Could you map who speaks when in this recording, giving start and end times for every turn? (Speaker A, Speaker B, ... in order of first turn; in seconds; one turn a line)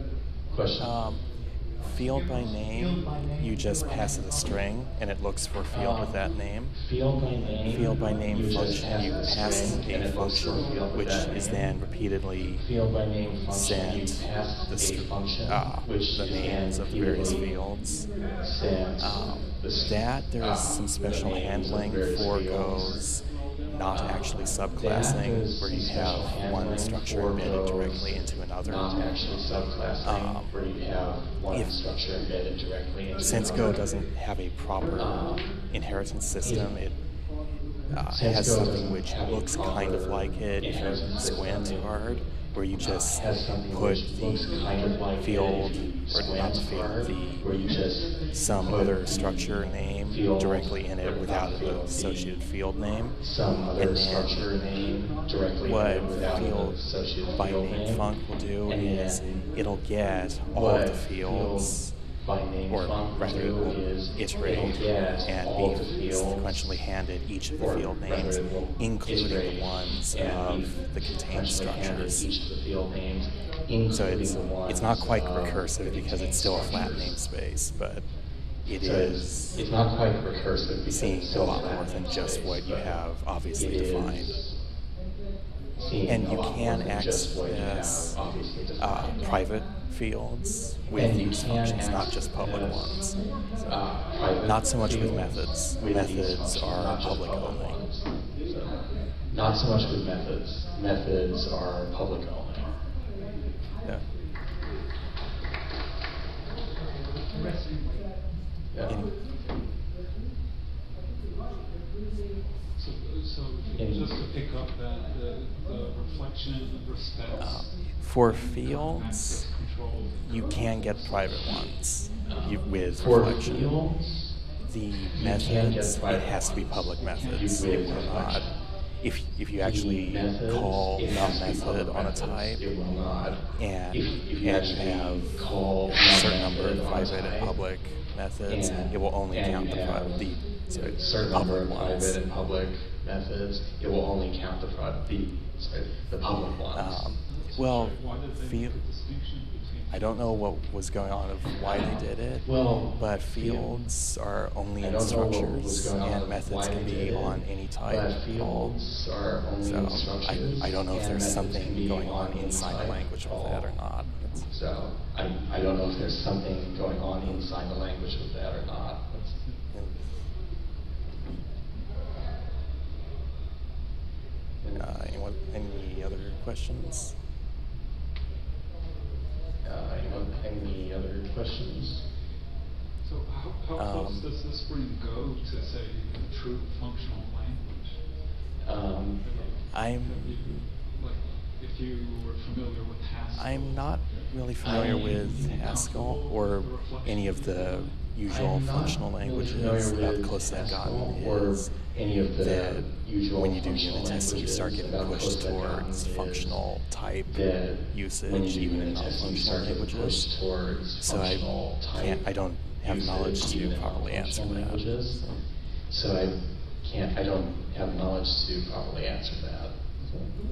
Speaker A: 0.5-1.0
Speaker B: 0.8-6.8
Speaker A: 5.7-11.7
Speaker B: 7.7-12.7
Speaker A: 12.6-17.4
Speaker B: 13.4-18.1
Speaker A: 18.4-23.0
Speaker B: 19.0-28.9
Speaker A: 23.9-28.1
Speaker A: 28.6-33.8
Speaker B: 30.0-30.5
Speaker B: 31.5-31.8
Speaker B: 33.1-37.0
Speaker A: 35.0-35.5
Speaker A: 36.4-36.7
Speaker B: 37.9-47.6
Speaker A: 38.0-41.9
Speaker A: 42.8-52.4
Speaker B: 48.3-54.5
Speaker A: 53.2-58.1
Speaker B: 55.6-62.0
Speaker A: 58.6-59.5
Speaker A: 60.5-66.6
Speaker B: 62.7-72.3
Speaker A: 67.6-77.1
Speaker B: 73.9-78.1
Speaker B: 78.6-79.6
Speaker A: 78.8-83.0
Speaker B: 80.8-84.4
Speaker A: 83.5-84.5
Speaker A: 85.8-89.4
Speaker B: 86.0-88.2
Speaker B: 88.8-97.8
Speaker A: 90.9-93.0
Speaker A: 93.6-102.7
Speaker A: 108.7-109.0
Speaker B: 108.9-109.2
Speaker C: 112.8-120.8
Speaker A: 113.8-114.2
Speaker B: 117.4-119.5
Speaker B: 120.2-123.8
Speaker A: 122.2-124.4
Speaker B: 124.6-132.8
Speaker A: 125.1-128.4
Speaker C: 127.0-128.5
Speaker A: 129.6-137.6
Speaker B: 133.5-142.2
Speaker A: 138.5-147.0
Speaker B: 146.7-148.8
Speaker C: 147.3-150.5
Speaker B: 149.9-158.8
Speaker A: 152.4-153.7
Speaker A: 154.8-163.8
Speaker B: 159.6-164.5
Speaker A: 164.5-169.3
Speaker B: 169.7-170.2
Speaker A: 174.6-174.9
Speaker B: 174.7-177.2
Speaker A: 179.6-182.1
Speaker C: 183.0-188.1
Speaker B: 183.7-184.3
Speaker A: 188.6-189.3
Speaker C: 189.2-198.0
Speaker B: 189.7-190.7
Speaker B: 193.3-201.8
Speaker A: 194.6-195.0
Speaker A: 198.3-206.6
Speaker B: 202.4-210.4
Speaker A: 207.3-212.2
Speaker B: 211.0-215.4
Speaker A: 212.8-215.3
Speaker A: 215.9-220.3